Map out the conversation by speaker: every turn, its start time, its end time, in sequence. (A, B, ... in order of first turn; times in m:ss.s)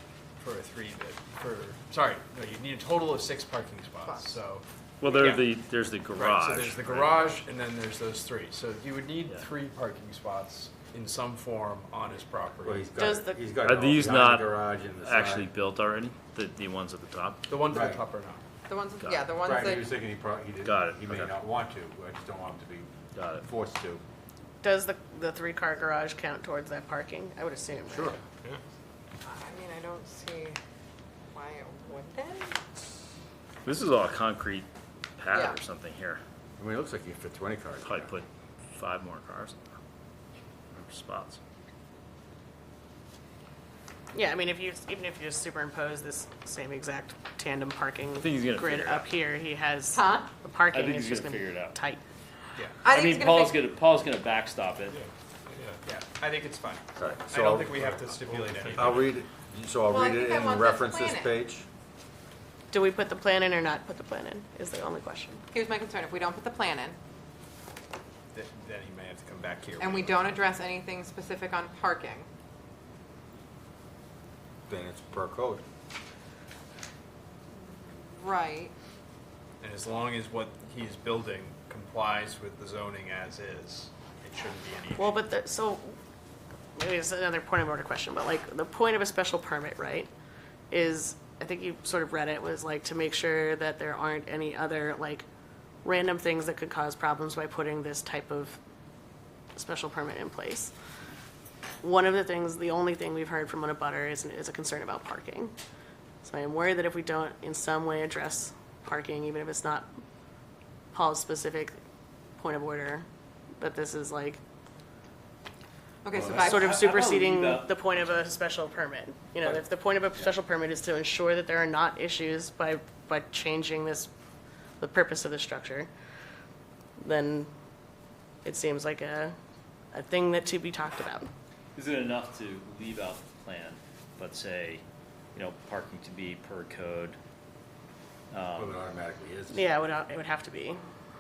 0:00.4-0:05.5 A
0:05.0-0:07.4 B
0:06.1-0:12.9 A
0:12.6-0:15.5 C
0:13.0-0:13.4 D
0:13.6-0:17.4 B
0:17.5-0:18.4 A
0:17.7-0:18.0 C
0:18.7-0:19.9 E
0:19.0-0:19.3 B
0:19.4-0:22.9 C
0:20.6-0:21.3 B
0:23.2-0:23.5 B
0:23.4-0:24.0 C
0:24.6-0:28.2 D
0:27.9-0:28.2 C
0:29.2-0:30.6 E
0:31.3-0:32.6 E
0:33.6-0:36.2 B
0:35.3-0:35.6 E
0:36.6-0:38.1 C
0:37.8-0:39.8 B
0:40.7-0:41.4 B
0:44.1-0:52.0 D
0:48.2-0:49.1 B
0:49.9-0:50.3 E
0:50.7-0:51.8 B
0:52.6-0:52.8 A
0:52.8-0:53.6 E
0:52.8-0:55.0 B
0:55.8-0:59.1 A
0:57.0-0:57.8 C
0:58.8-1:01.7 C
0:59.9-1:01.4 E
1:02.7-1:05.4 D
1:05.5-1:07.0 E
1:08.3-1:10.4 A
1:09.8-1:12.3 E
1:14.7-1:15.6 C
1:17.6-1:18.7 E
1:19.6-1:25.2 A
1:25.0-1:26.0 D
1:26.8-1:30.1 D
1:30.7-1:35.2 D
1:35.8-1:38.6 D
1:39.6-1:40.7 D
1:41.8-1:45.5 D
1:46.2-1:49.9 D
1:50.9-1:51.8 D
1:52.4-1:53.1 D
1:53.6-1:54.4 D
1:56.0-1:56.8 E
1:56.2-1:58.2 B
1:56.2-1:56.5 C
1:56.3-2:04.1 D
2:04.8-2:05.9 D
2:07.0-2:07.5 D
2:08.4-2:09.4 D
2:09.9-2:11.3 D
2:11.8-2:14.8 B
2:15.4-2:17.2 B
2:18.3-2:18.8 B
2:18.6-2:19.7 C
2:19.5-2:20.8 D